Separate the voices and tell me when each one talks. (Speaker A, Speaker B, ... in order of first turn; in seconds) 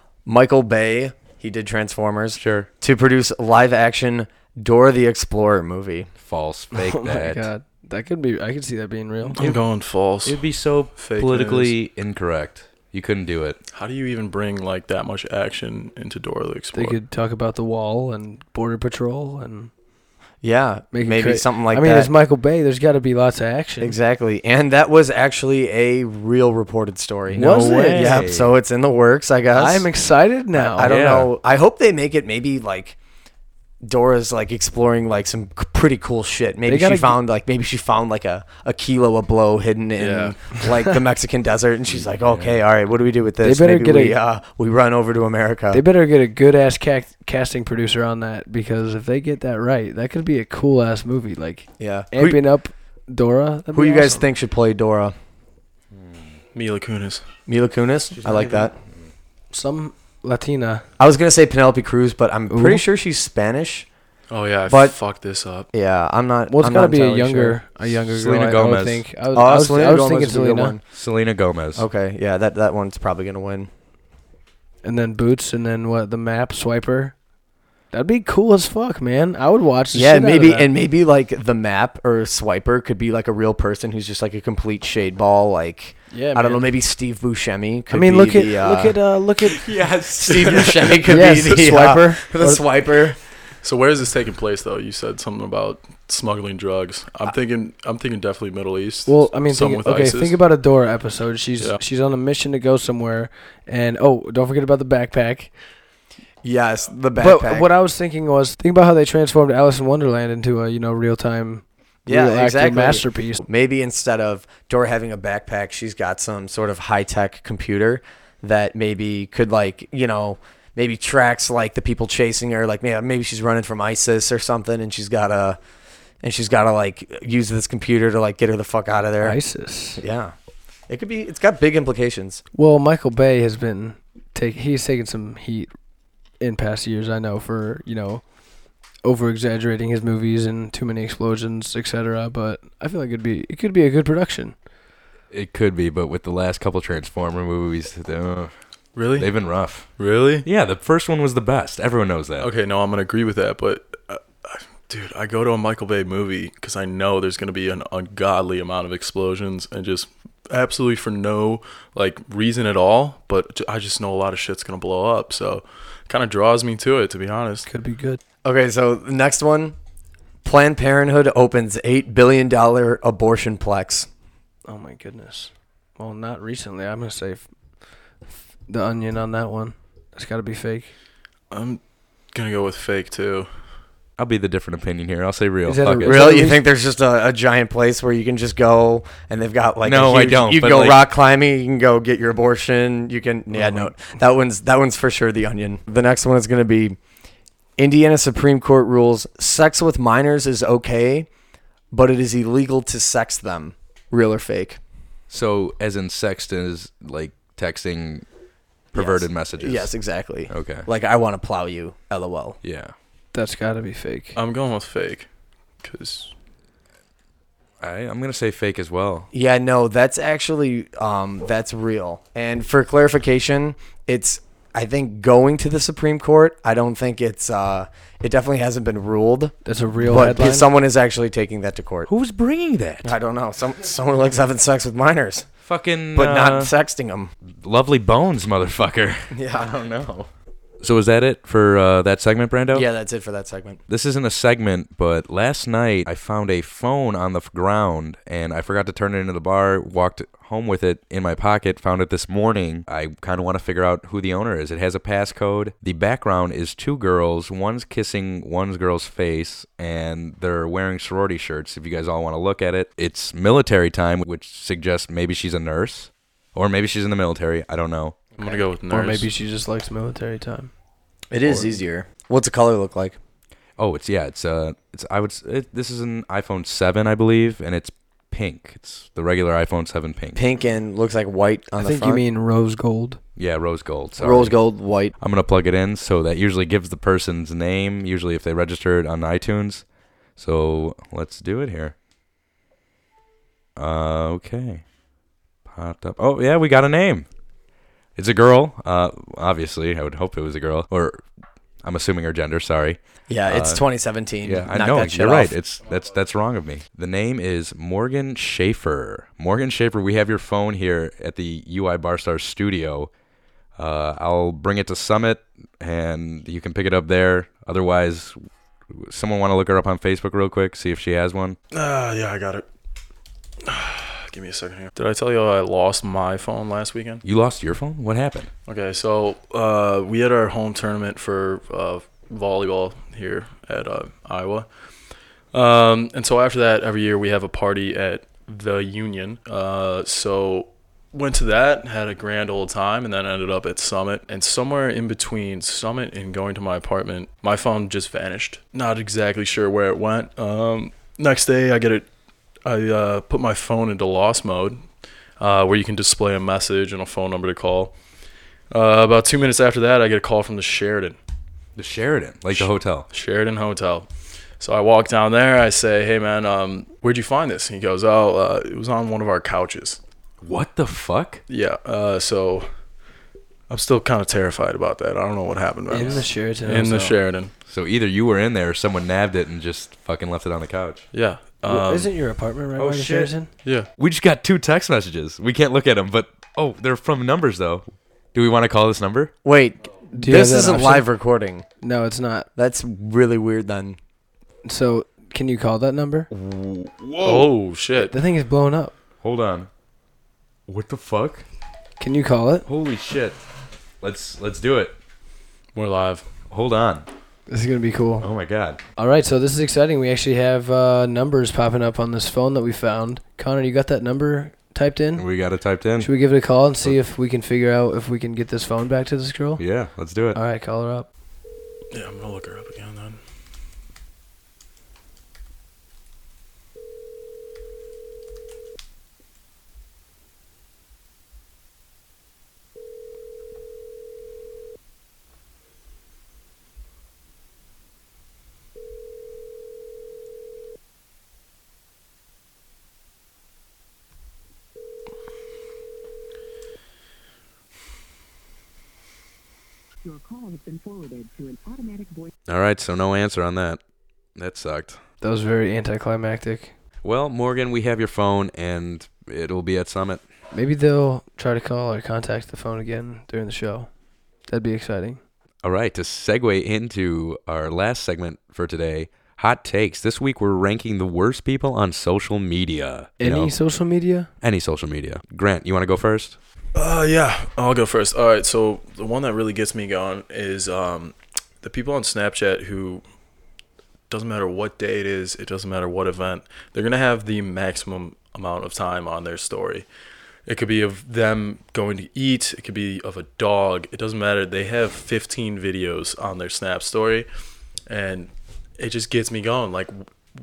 Speaker A: 0.3-6.1, 20.4-22.1, 23.8-29.9, 30.5-33.0, 33.8-45.8, 51.8-52.4, 53.7-55.1, 57.5-58.8, 61.0-63.9, 64.7-65.0, 65.7-67.6, 69.3-70.8, 71.8-73.7, 79.9-89.0, 90.2-93.2, 106.4-107.7, 112.1-125.6, 126.2-129.4, 130.0-130.3, 130.9-132.4, 168.4-169.8, 170.4-174.1, 186.1-197.0, 197.8-201.3, 201.9-204.8, 208.9-212.6, 219.3-232.1, 233.0-235.5, 236.2-237.3, 239.3-240.3, 242.7-243.8, 271.3-273.2, 280.4-282.2, 284.2-285.1, 303.3-305.6, 389.4-391.7, 392.6-394.0
Speaker B: 2.4-2.7, 6.2-7.5, 10.2-13.6, 27.3-28.5, 30.9-31.3, 41.9-42.6, 55.9-56.2, 68.1-69.0, 70.9-71.8, 89.9-90.6, 145.3-148.5, 149.2-149.9, 150.4-152.5, 184.2-186.2, 189.8-191.0, 205.3-208.3, 208.9-209.9, 210.5-210.9, 212.6-212.9, 217.8-219.3, 232.1-233.2, 235.7-236.7, 237.4-239.3, 240.8-242.9, 243.9-268.2, 273.8-280.4, 283.4-284.6, 285.2-289.9, 290.4-291.9, 293.8-294.8, 295.7-297.3, 298.2-301.2, 301.8-303.8, 304.4-313.1, 313.8-318.4, 318.9-321.6, 327.2-328.5, 361.8-363.1, 370.4-371.4, 377.7-381.0, 382.8-383.3, 384.0-389.3, 396.3-397.5, 399.2-399.7, 400.7-401.4, 402.7-403.4, 404.0-405.0, 406.5-407.1, 408.2-408.8, 415.2-416.1, 419.6-420.4, 452.5-453.8, 454.4-455.0, 457.0-460.2, 465.6-473.5, 474.4-476.4
Speaker C: 6.7-9.6, 16.7-19.7, 20.9-24.0, 27.4-28.2, 29.6-31.2, 36.7-37.2, 43.4-44.2, 45.7-54.2, 59.5-60.9, 62.5-62.8, 66.5-70.8, 74.8-77.2, 77.9-80.7, 86.1-86.7, 87.9-89.7, 91.0-92.6, 99.1-105.5, 107.2-113.4, 129.2-130.0, 132.5-135.7, 136.4-138.2, 139.0-144.6, 167.7-168.2, 174.7-177.5, 178.7-180.9, 185.7-186.6, 213.3-214.4, 229.7-230.7, 268.4-270.7, 271.4-271.7, 281.8-283.2, 375.9-377.2, 381.6-383.5, 390.1-391.1, 391.8-392.5, 394.6-396.3, 398.0-398.9, 402.0-402.7, 407.5-408.3, 409.0-415.3, 416.0-419.6, 420.3-421.1, 455.2-456.7, 460.5-463.9, 464.5-465.2, 473.2-474.3
Speaker D: 9.3-10.4, 11.0-11.7, 13.7-16.9, 40.0-40.7, 56.5-57.2, 64.3-65.7, 89.6-91.5, 93.6-100.4, 148.9-149.3, 150.0-150.5, 152.4-167.7, 181.5-181.8, 182.3-183.5, 214.3-215.3, 215.8-216.3, 268.4-269.3, 321.7-322.7, 323.6-327.2, 328.7-334.7, 335.5-352.1, 352.6-354.8, 355.4-357.9, 358.7-361.2, 362.5-364.1, 364.6-370.0, 371.5-372.7, 373.7-377.5, 381.1-382.1, 397.2-398.1, 405.8-406.2, 421.9-423.2, 476.8-483.0, 484.1-489.9, 490.5-497.3, 497.9-500.1
Speaker E: 450.0-452.3